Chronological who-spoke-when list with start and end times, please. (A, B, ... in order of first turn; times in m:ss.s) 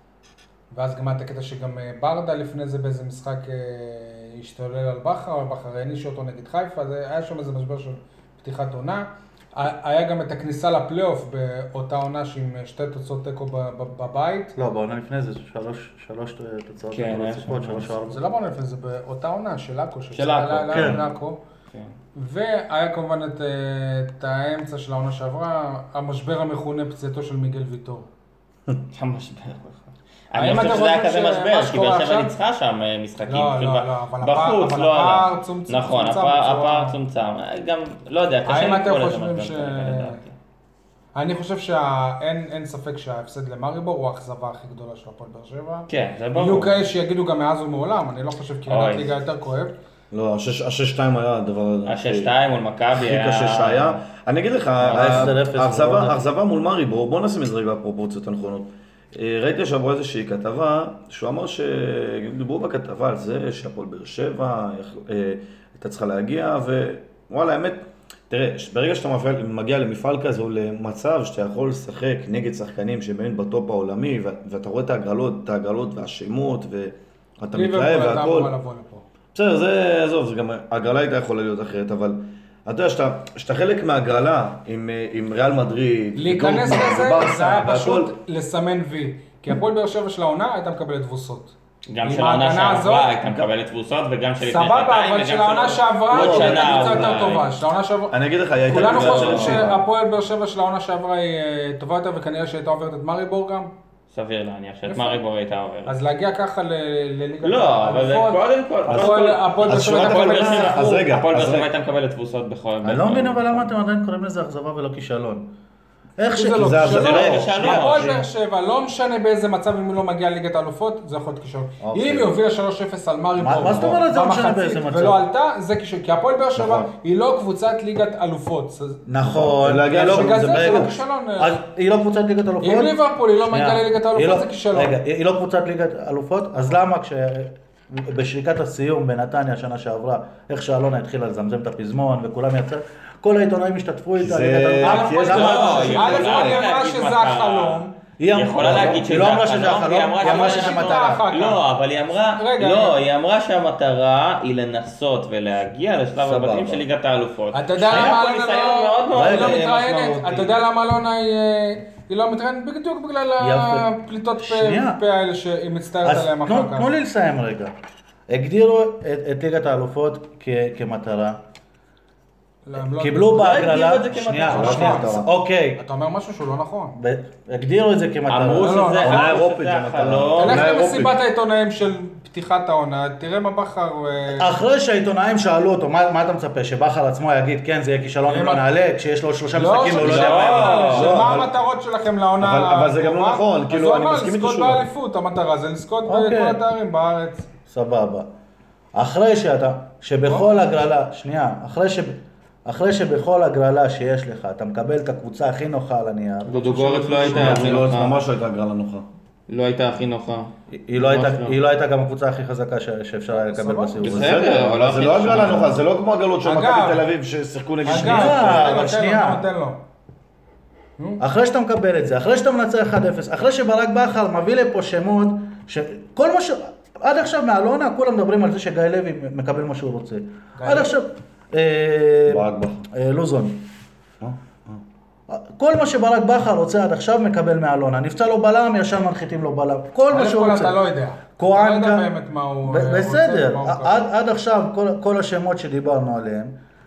0:00.7-0:14.5 A
0:14.5-0:18.2 B
0:16.9-0:17.9 C
0:18.1-0:21.4 A
0:20.1-0:21.0 C
0:20.7-0:21.0 B
0:22.1-0:28.1 A
0:28.9-0:40.3 C
0:30.3-0:32.3 A
0:33.2-0:36.9 A
0:38.4-0:40.2 A
0:41.1-0:49.7 A
0:45.9-0:46.8 C
0:48.7-0:49.1 C
0:50.1-0:52.3 D
0:51.8-0:54.0 C
0:52.9-1:18.5 D
0:54.8-0:55.4 C
0:54.9-0:56.2 B
1:17.5-1:19.0 A
1:19.3-1:28.1 D
1:26.2-1:31.5 A
1:31.9-1:37.4 C
1:32.0-1:33.1 A
1:34.4-1:43.7 A
1:36.1-1:37.3 D
1:38.1-1:39.8 D
1:38.7-1:39.7 C
1:44.1-1:46.0 C
1:44.9-1:45.2 A
1:45.8-1:51.1 A
1:47.4-1:53.7 C
1:48.9-1:51.7 D
1:52.8-1:55.5 B
1:56.2-1:58.2 B
1:56.3-2:09.0 A
1:56.6-1:57.5 D
1:56.8-1:58.2 C
2:01.8-2:02.3 B
2:03.4-2:05.2 B
2:03.6-2:04.0 D
2:06.6-2:06.9 D
2:09.0-2:26.4 B
2:09.2-2:11.0 D
2:09.9-2:11.6 A
2:12.6-2:15.0 A
2:24.2-2:26.6 D
2:24.8-2:27.9 A
2:25.2-2:40.5 C
2:28.2-2:31.2 B
2:28.6-2:29.2 D
2:30.2-2:31.6 A
2:32.4-2:33.0 A
2:36.2-2:36.8 D
2:37.5-2:46.9 A
2:39.1-2:39.6 B
2:43.4-2:45.0 B
2:46.0-2:47.7 B
2:48.3-2:51.4 B
2:52.6-2:53.8 A
2:52.8-2:55.8 B
2:53.4-2:55.1 C
2:54.4-2:55.3 D
2:54.5-2:55.1 A
2:55.8-2:56.9 A
2:56.9-2:58.9 B
2:58.3-3:00.7 C
2:58.6-2:59.4 A
2:59.0-3:01.2 D
3:00.4-3:04.5 A
3:04.3-3:10.9 B
3:08.3-3:08.6 A
3:09.5-3:17.5 A
3:09.9-3:11.3 C
3:10.9-3:11.5 D
3:12.4-3:14.9 D
3:16.0-3:16.6 B
3:17.7-3:18.3 B
3:18.9-3:28.0 B
3:26.4-3:28.2 C
3:27.2-3:29.0 D
3:29.5-3:31.6 C
3:30.7-3:34.6 B
3:33.3-3:34.1 A
3:34.0-3:35.8 C
3:34.0-3:38.9 D
3:36.4-3:37.0 A
3:37.8-3:39.8 A
3:37.9-3:39.4 B
3:41.2-3:53.6 B
3:50.6-3:51.0 A
3:52.3-3:52.8 D
3:54.2-3:54.8 D
3:55.3-4:00.8 B
4:00.1-4:04.0 A
4:01.4-4:02.1 B
4:02.6-4:06.5 B